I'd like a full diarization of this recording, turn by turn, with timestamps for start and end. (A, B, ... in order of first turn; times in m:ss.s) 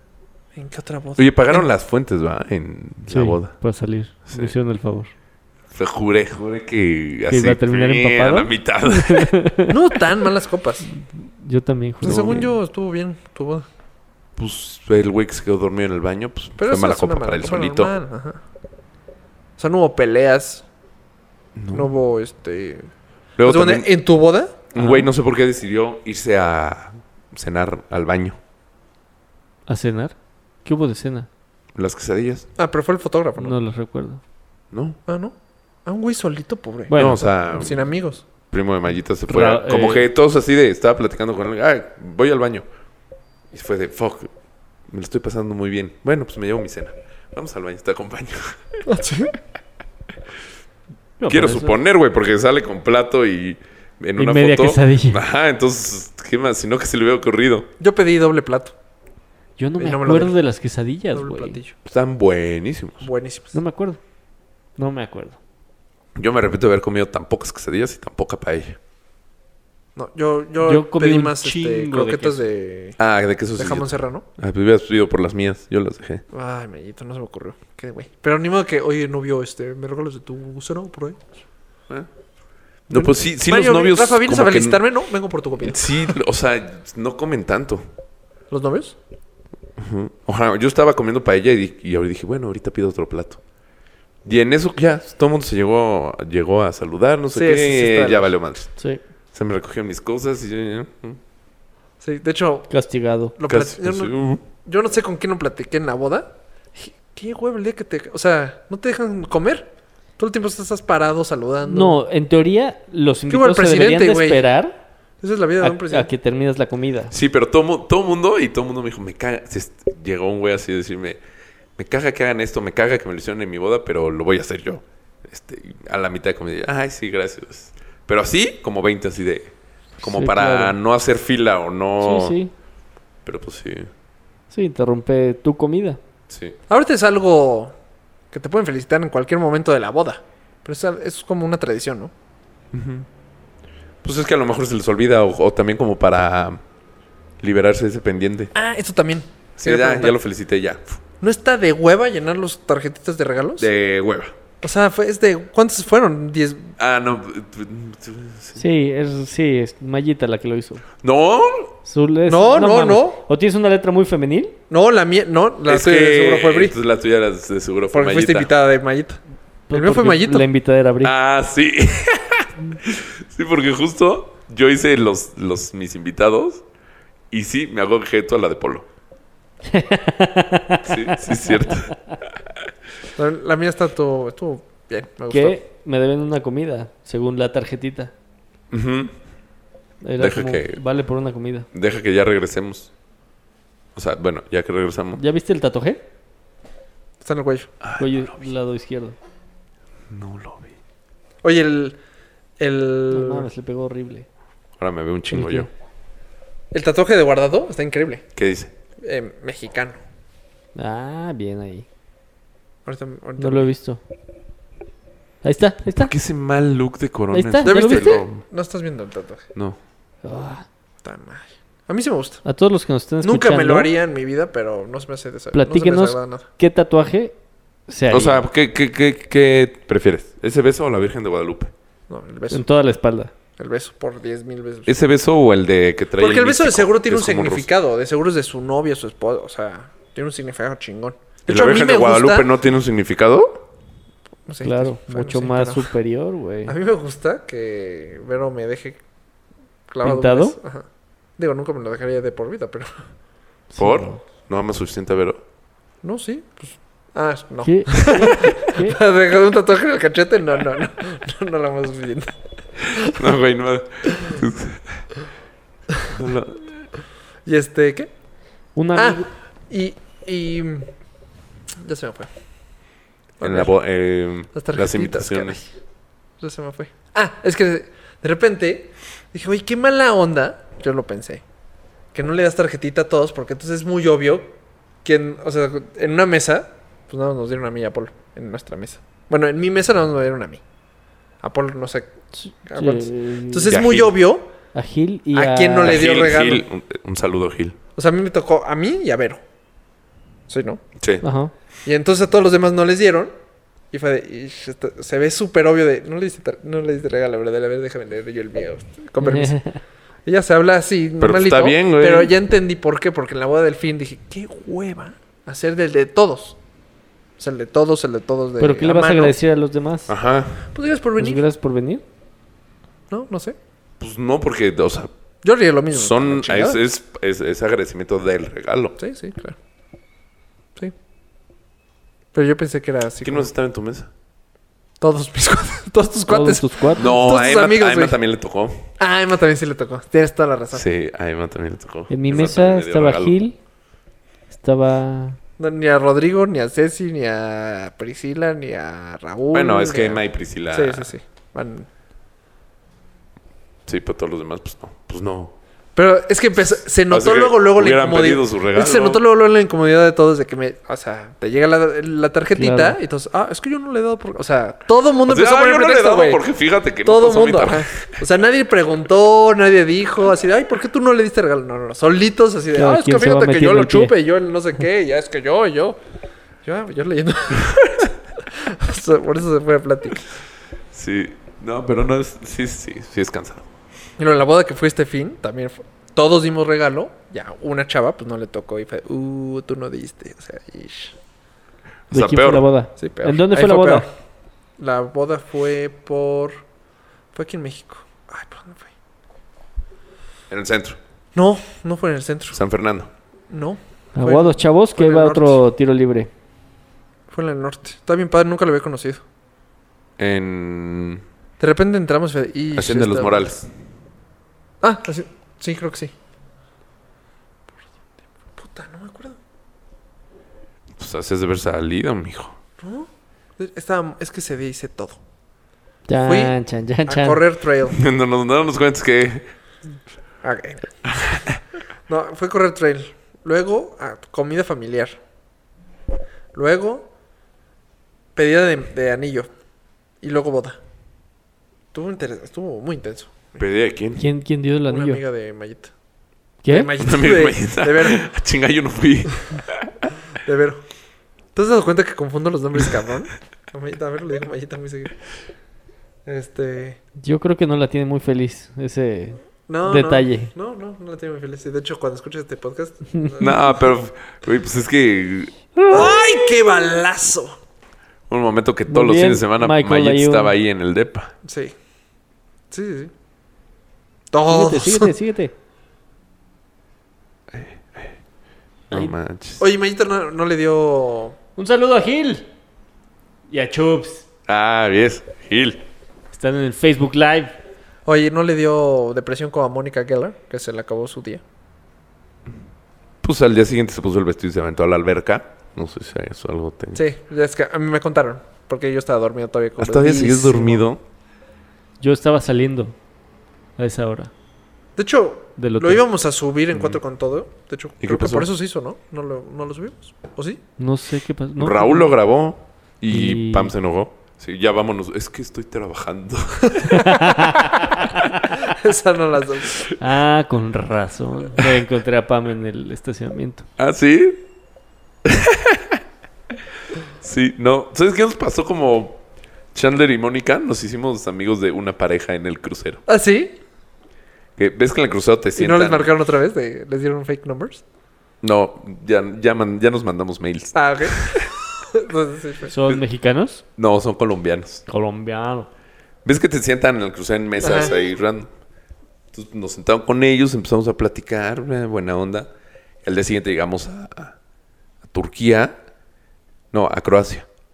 0:00.6-0:01.7 A
0:01.2-0:03.5 B
0:03.1-0:05.1 C
0:04.3-0:04.5 B
0:05.7-0:09.3 B
0:07.3-0:09.8 C
0:09.7-0:10.8 A
0:10.9-0:12.4 C
0:12.0-0:13.7 A
0:12.0-0:12.5 B
0:14.4-0:17.9 B
0:16.6-0:18.4 A
0:19.6-0:20.6 A
0:21.6-0:21.9 B
0:21.7-0:22.9 A
0:23.4-0:23.9 B
0:23.4-0:24.7 A
0:24.7-0:28.4 B
0:24.8-0:25.1 C
0:29.7-0:31.3 C
0:31.8-0:32.5 B
0:32.6-0:33.6 A
0:33.4-0:34.2 C
0:34.7-0:35.0 B
0:35.1-0:35.3 A
0:35.8-0:38.2 A
0:36.9-0:37.2 C
0:37.0-0:37.9 B
0:38.5-0:42.7 B
0:39.3-0:40.1 C
0:43.5-0:44.3 B
0:44.9-0:48.6 B
0:48.8-0:49.4 A
0:51.2-0:51.8 C
0:51.3-0:57.7 B
0:54.2-0:55.2 C
0:57.8-0:58.7 A
0:59.6-1:01.6 C
0:59.8-1:00.4 A
1:01.1-1:01.8 A
1:01.9-1:03.1 B
1:03.0-1:03.5 A
1:03.5-1:04.0 C
1:04.8-1:05.4 C
1:06.2-1:08.8 B
1:10.0-1:13.0 A
1:10.6-1:12.4 C
1:13.0-1:16.2 B
1:13.6-1:14.3 A
1:16.3-1:21.3 A
1:22.9-1:24.8 B
1:22.9-1:26.2 A
1:25.6-1:27.9 B
1:28.5-1:29.0 A
1:29.8-1:33.4 B
1:34.2-1:38.7 B
1:37.3-1:38.4 A
1:39.3-1:41.2 B
1:42.0-1:42.7 A
1:42.7-1:43.4 C
1:43.4-1:52.0 A
1:43.5-1:44.4 B
1:51.7-1:54.8 C
1:53.3-1:54.4 A
1:55.2-1:56.1 A
1:55.6-1:57.1 C
1:57.1-2:01.2 B
2:01.8-2:12.4 B
2:10.0-2:10.8 C
2:12.0-2:12.5 C
2:13.2-2:13.9 B
2:14.5-2:16.0 C
2:16.3-2:16.6 B
2:16.7-2:17.7 A
2:18.3-2:22.1 A
2:22.7-2:23.1 B
2:24.0-2:26.6 B
2:27.4-2:28.5 B
2:28.6-2:30.2 A
2:29.6-2:31.0 B
2:31.2-2:33.7 A
2:33.6-2:34.4 B
2:34.6-2:36.7 A
2:36.8-2:38.6 B
2:38.6-2:40.8 C
2:41.0-2:41.7 B
2:41.8-2:44.6 C
2:42.3-2:43.2 A
2:44.7-2:46.8 A
2:45.7-2:48.5 B
2:47.9-2:49.2 A
2:49.7-2:51.1 C
2:49.7-2:50.5 A
2:51.0-2:56.6 B
2:57.3-2:58.9 B
2:59.7-3:01.8 C
3:00.8-3:01.9 B
3:03.2-3:05.6 A
3:05.3-3:08.1 C
3:08.7-3:09.2 B
3:10.0-3:11.7 C
3:10.2-3:10.8 B
3:11.7-3:12.9 B
3:14.0-3:15.2 B
3:15.2-3:16.0 C
3:17.2-3:17.7 A
3:17.8-3:18.4 B
3:18.0-3:19.2 C
3:20.1-3:20.7 B
3:21.4-3:22.0 A
3:22.6-3:23.5 A
3:23.1-3:24.3 C
3:24.8-3:25.7 B
3:25.3-3:25.7 C
3:26.7-3:28.3 A
3:28.4-3:28.7 B
3:29.0-3:30.0 A
3:30.8-3:31.9 C
3:32.9-3:33.7 A
3:33.4-3:34.0 C
3:35.4-3:36.1 C
3:35.9-3:38.4 B
3:37.3-3:38.2 C
3:37.6-3:39.5 A
3:40.2-3:40.7 C
3:41.0-3:42.4 A
3:42.4-3:43.9 C
3:43.2-3:46.5 A
3:45.5-3:47.4 C
3:47.9-3:48.4 C
3:48.1-3:51.7 B
3:52.1-3:52.6 A
3:52.5-3:53.3 C
3:53.6-3:55.0 A
3:54.9-3:57.7 B
3:56.2-4:02.5 A
4:01.5-4:03.6 B
4:04.5-4:05.9 A
4:04.6-4:06.7 C
4:06.7-4:09.0 A
4:09.9-4:10.8 A
4:10.0-4:10.6 C
4:11.4-4:12.9 A
4:13.7-4:14.2 C
4:13.8-4:15.4 B
4:16.0-4:23.3 A
4:17.6-4:19.0 C
4:23.0-4:25.0 B
4:26.1-4:26.7 B
4:27.4-4:28.1 A
4:28.8-4:29.3 C
4:29.0-4:30.9 A
4:31.8-4:32.3 A
4:33.4-4:33.7 A
4:33.4-4:35.6 B
4:34.5-4:35.7 A
4:36.4-4:41.4 A
4:42.1-4:44.5 A
4:45.0-4:50.6 A
4:51.4-4:52.1 A
4:52.4-4:53.7 C
4:52.7-4:54.5 A
4:53.7-4:54.2 B
4:54.7-4:56.0 C
4:55.3-4:56.7 A
4:55.8-4:57.8 B
4:58.0-4:59.4 A
5:00.5-5:00.8 A
5:01.2-5:01.5 C
5:01.8-5:03.3 A
5:03.9-5:09.6 A
5:09.2-5:09.8 C
5:10.2-5:16.6 A
5:11.2-5:12.3 B
5:17.4-5:19.4 A
5:18.6-5:20.1 C
5:20.1-5:20.7 B
5:20.7-5:21.4 A
5:21.2-5:22.0 C
5:23.1-5:23.6 A
5:24.0-5:25.1 B
5:25.4-5:26.8 A
5:25.9-5:29.0 B
5:29.0-5:29.6 A
5:32.3-5:33.5 A
5:33.2-5:34.1 B
5:35.0-5:38.2 A
5:36.3-5:37.1 C
5:37.0-5:38.8 B
5:39.0-5:40.9 A
5:40.7-5:43.4 B
5:42.1-5:43.6 C
5:44.5-5:45.4 C
5:45.6-5:51.9 A
5:49.5-5:51.1 B
5:53.9-5:55.5 B
5:56.0-6:06.4 A
5:57.1-5:59.2 B
6:02.6-6:03.0 C
6:05.3-6:08.1 B
6:07.0-6:16.0 A
6:12.8-6:14.1 C
6:16.6-6:20.3 A
6:20.9-6:23.7 B
6:24.2-6:31.2 A
6:32.1-6:32.7 B
6:32.1-6:34.1 C
6:33.0-6:34.1 A
6:34.8-6:36.6 A
6:37.3-6:38.9 A
6:40.5-6:41.0 B
6:41.4-6:42.6 A
6:42.5-6:43.1 B
6:43.5-6:45.6 A
6:44.2-6:46.3 C
6:47.3-6:49.2 A
6:50.2-6:51.2 B
6:51.6-6:53.5 A
6:52.8-6:53.7 B
6:54.8-6:56.1 A
6:58.6-6:59.4 A
7:01.0-7:02.6 B
7:02.8-7:05.2 A
7:06.1-7:07.4 C
7:06.2-7:06.6 A
7:07.1-7:08.0 A
7:07.9-7:09.5 B
7:10.4-7:11.4 A
7:11.2-7:11.6 B
7:12.1-7:15.2 A
7:16.5-7:17.1 A
7:18.4-7:19.5 A
7:20.2-7:20.8 A
7:21.9-7:23.6 A
7:23.6-7:24.2 B
7:24.2-7:25.2 C
7:24.9-7:25.9 A
7:26.6-7:26.9 C
7:26.7-7:28.2 A
7:27.0-7:29.9 B
7:30.4-7:30.8 A
7:31.6-7:35.2 A
7:36.3-7:37.0 A
7:37.2-7:40.5 C
7:39.7-7:43.9 A
7:43.4-7:45.5 B
7:45.8-7:46.1 C
7:45.9-7:47.6 A
7:48.3-7:51.3 B
7:48.9-7:50.6 C
7:51.4-7:51.7 A
7:52.7-7:53.1 A
7:54.3-7:55.1 A
7:54.5-7:55.5 C
7:57.5-7:58.2 B
7:58.9-7:59.6 B
7:59.6-8:01.4 A
8:01.6-8:02.5 C
8:03.5-8:04.2 C
8:04.5-8:05.8 B
8:06.3-8:07.6 C
8:08.1-8:11.4 A
8:13.2-8:17.0 B
8:17.0-8:20.8 A
8:19.8-8:21.0 B
8:22.0-8:23.0 C
8:23.8-8:24.3 C
8:25.0-8:30.6 A
8:25.6-8:26.0 C
8:28.0-8:28.5 B
8:30.8-8:32.1 C
8:31.6-8:36.9 B
8:33.1-8:33.7 C
8:36.9-8:38.5 C
8:38.5-8:39.9 A
8:40.0-8:43.7 C
8:43.8-8:44.4 B
8:45.2-8:46.0 B
8:47.2-8:49.2 B
8:49.7-8:53.0 B
8:53.1-8:53.6 A
8:54.6-8:56.1 B
8:55.6-8:57.8 A
8:58.4-9:01.5 B
9:00.7-9:02.7 A
9:02.7-9:03.6 C
9:03.8-9:04.8 B
9:04.9-9:05.7 C
9:06.2-9:08.5 B
9:07.6-9:07.9 A
9:09.3-9:12.5 B
9:13.0-9:14.4 B
9:15.1-9:15.8 B
9:16.7-9:17.5 B